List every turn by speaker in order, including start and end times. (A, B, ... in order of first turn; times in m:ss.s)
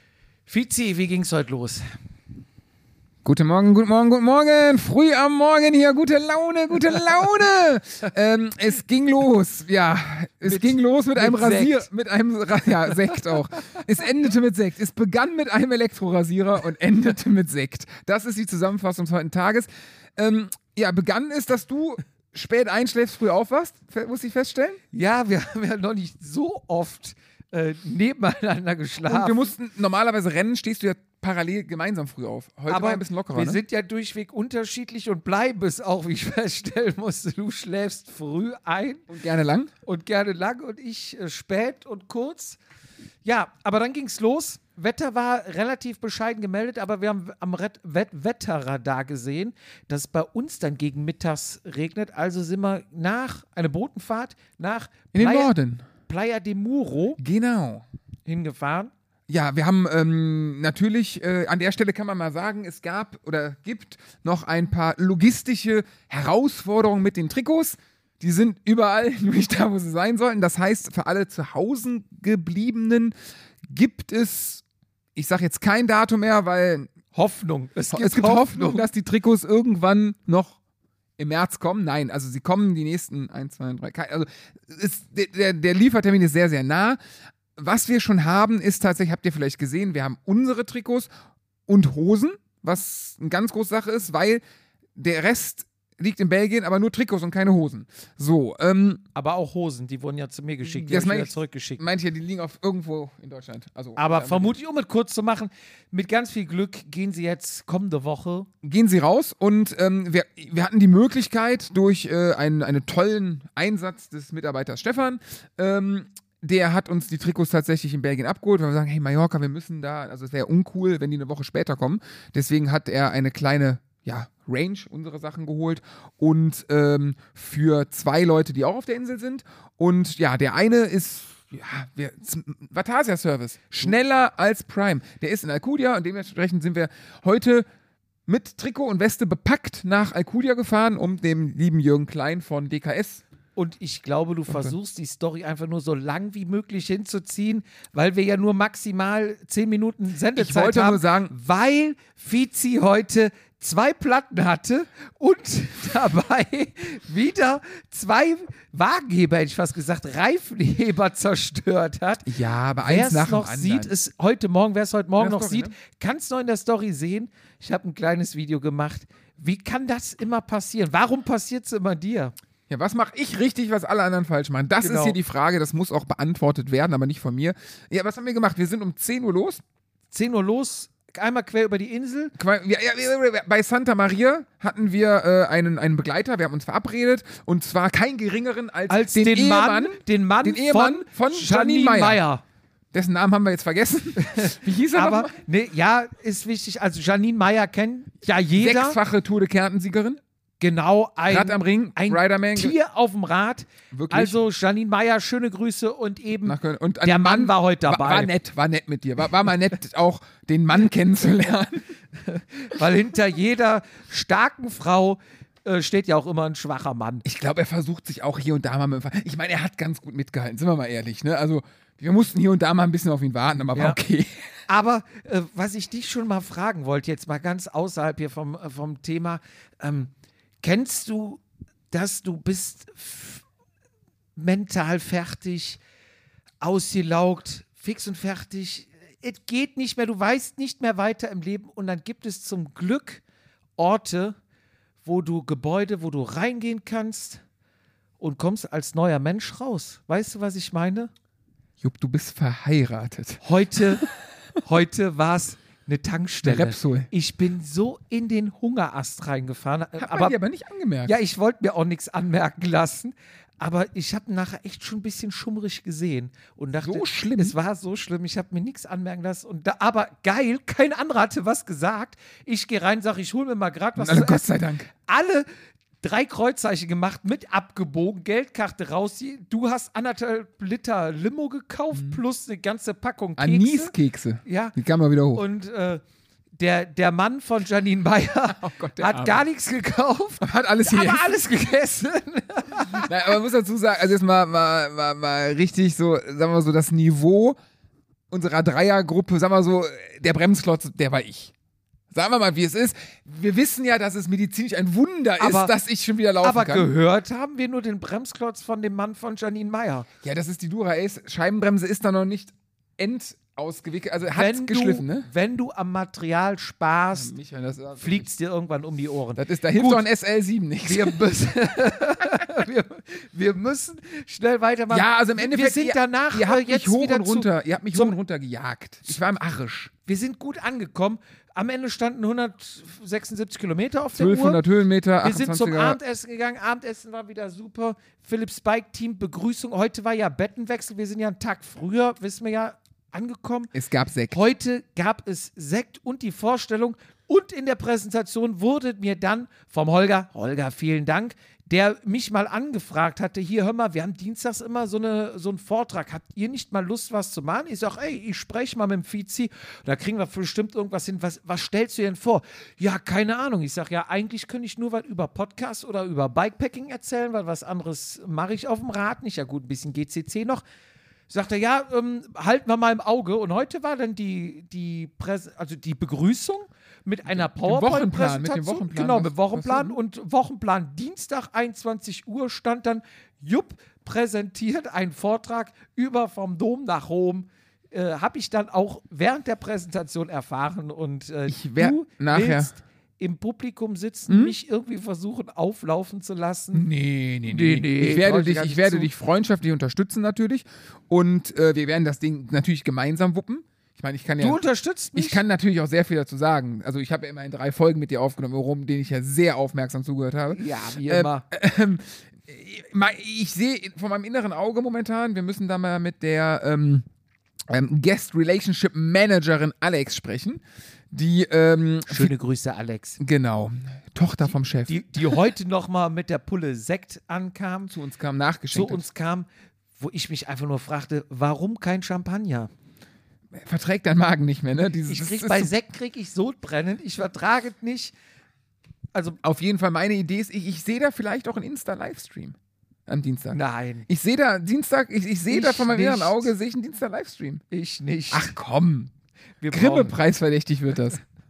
0:00.4-0:01.8 A
0:03.2-0:24.8 B
0:10.4-0:11.8 A
0:24.9-0:29.5 A
0:29.0-0:33.6 B
0:32.7-0:39.1 A
0:39.1-0:39.7 B
0:39.8-0:42.6 A
0:43.2-0:55.5 A
0:55.1-0:55.8 B
0:56.0-0:57.2 A
0:57.2-0:57.8 B
0:58.3-0:58.9 A
0:59.3-1:13.1 B
1:13.7-1:14.6 B
1:15.2-1:16.9 B
1:17.1-1:18.9 A
1:17.9-1:20.6 B
1:21.2-1:27.0 B
1:27.6-1:31.1 B
1:31.7-1:34.4 B
1:35.0-1:39.0 B
1:39.1-1:41.8 A
1:40.7-1:44.5 B
1:44.0-1:48.5 A
1:48.6-2:17.6 B
2:18.3-2:23.2 B
2:23.6-2:42.3 A
2:24.5-2:24.7 B
2:30.3-2:31.3 B
2:42.2-2:43.9 B
2:42.8-2:52.3 A
2:45.2-2:45.7 B
2:52.7-2:59.6 B
2:54.8-2:55.2 A
3:00.1-3:02.3 A
3:02.4-3:12.2 B
3:08.9-3:12.4 A
3:12.9-3:15.3 B
3:14.2-3:19.0 A
3:18.6-3:20.2 B
3:20.6-3:28.3 A
3:21.3-3:22.8 B
3:23.9-3:24.4 B
3:26.4-3:31.8 B
3:32.2-3:37.2 A
3:37.2-3:44.4 B
3:44.7-3:53.4 A
3:54.4-3:55.8 A
3:56.6-4:03.2 A
4:03.8-4:04.4 A
4:05.0-4:07.4 A
4:08.2-4:11.1 A
4:11.8-4:14.1 B
4:13.4-4:14.0 A
4:14.6-4:20.3 A
4:16.4-4:17.1 B
4:20.0-4:21.2 B
4:21.0-4:35.4 A
4:26.8-4:27.5 B
4:34.0-4:34.9 B
4:36.0-4:43.9 A
4:41.9-4:42.2 B
4:43.4-4:45.4 B
4:44.4-4:44.7 A
4:45.3-4:46.0 A
4:46.6-4:53.3 A
4:48.6-4:49.4 B
4:50.4-4:51.3 B
4:52.9-4:57.6 B
4:58.3-5:01.5 B
5:02.1-5:06.9 B
5:05.4-5:05.7 A
5:06.4-5:10.1 A
5:10.2-5:15.3 B
5:14.3-5:17.3 A
5:17.1-5:18.3 B
5:18.0-5:20.0 A
5:19.4-5:21.2 B
5:20.8-5:28.1 A
5:24.9-5:29.9 B
5:30.0-5:34.6 A
5:34.1-5:36.0 B
5:35.2-5:43.7 A
5:43.7-5:44.4 B
5:44.3-6:10.6 A
6:11.3-6:36.8 A
6:17.3-6:20.0 B
6:31.5-6:32.7 B
6:34.3-6:34.5 B
6:36.7-6:44.6 B
6:37.4-6:39.1 A
6:44.4-6:45.4 A
6:45.1-6:57.0 B
6:50.5-6:51.4 A
6:57.7-7:02.3 B
7:02.1-7:03.2 A
7:03.2-7:05.0 B
7:04.9-7:07.9 A
7:07.9-7:09.0 B
7:08.7-7:12.7 A
7:13.5-7:15.7 B
7:15.0-7:18.1 A
7:19.1-7:19.4 A
7:19.4-7:27.6 B
7:23.5-7:24.1 A
7:25.5-7:26.5 A
7:27.7-7:28.5 A
7:28.3-7:29.1 B
7:29.6-7:30.2 A
7:29.7-7:31.2 B